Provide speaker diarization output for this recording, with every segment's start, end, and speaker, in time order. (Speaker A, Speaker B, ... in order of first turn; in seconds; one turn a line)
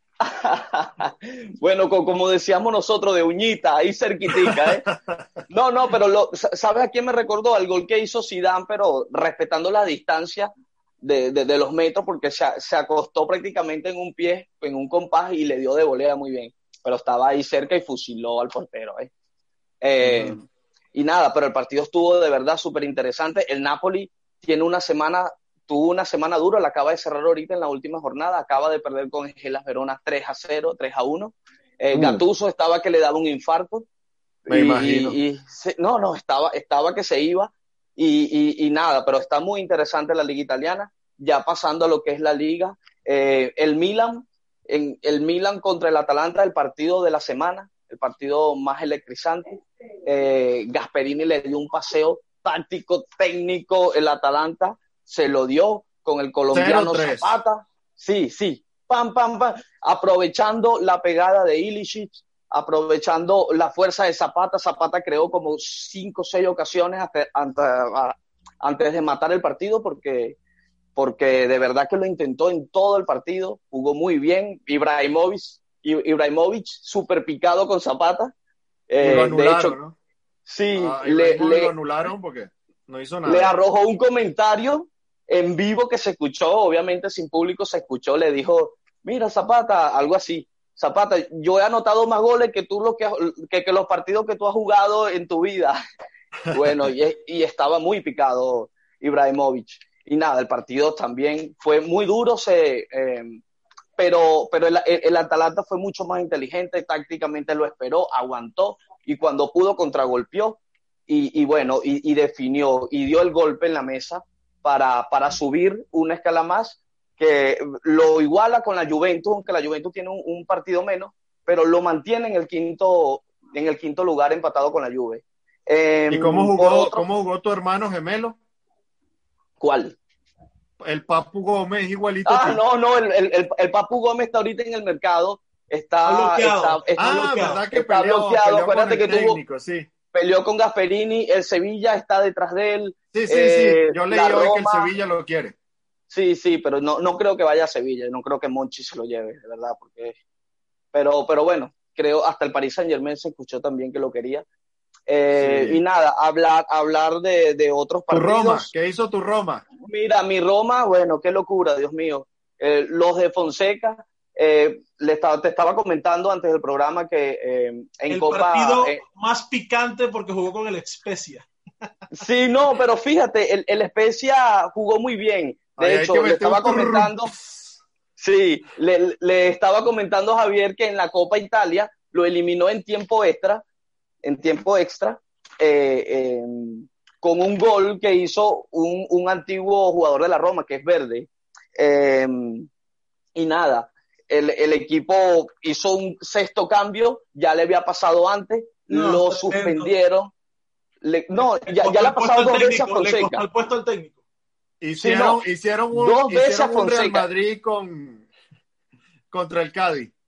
Speaker A: 0.2-4.8
Speaker B: 4.5-5.2
Speaker A: 5.5-10.5
Speaker A: 11.0-19.1
Speaker A: 19.8-20.4
Speaker B: 20.1-20.4
Speaker A: 20.9-33.9
Speaker B: 31.9-32.2
Speaker A: 34.5-70.4
Speaker B: 34.5-35.2
Speaker B: 56.5-57.4
Speaker A: 71.0-78.3
Speaker A: 78.9-79.8
Speaker B: 79.0-80.0
Speaker A: 80.5-81.7
Speaker B: 80.8-83.5
Speaker A: 83.3-95.8
Speaker A: 96.5-103.4
Speaker A: 104.0-127.0
Speaker B: 126.1-128.4
Speaker A: 129.6-129.9
Speaker B: 130.8-132.6
Speaker A: 132.3-139.4
Speaker C: 136.1-137.6
Speaker B: 137.0-139.9
Speaker A: 140.1-144.9
Speaker B: 143.1-145.6
Speaker A: 146.1-150.2
Speaker A: 150.9-154.4
Speaker A: 155.1-158.7
Speaker B: 155.3-155.8
Speaker B: 158.1-159.7
Speaker A: 159.8-169.0
Speaker C: 168.1-171.5
Speaker A: 172.1-177.3
Speaker B: 175.8-177.8
Speaker A: 178.2-183.6
Speaker A: 184.2-192.7
Speaker A: 193.3-200.3
Speaker C: 198.9-199.9
Speaker A: 201.0-203.4
Speaker C: 201.6-204.2
Speaker B: 204.8-208.3
Speaker A: 205.0-205.4
Speaker A: 205.9-207.3
Speaker B: 209.3-210.1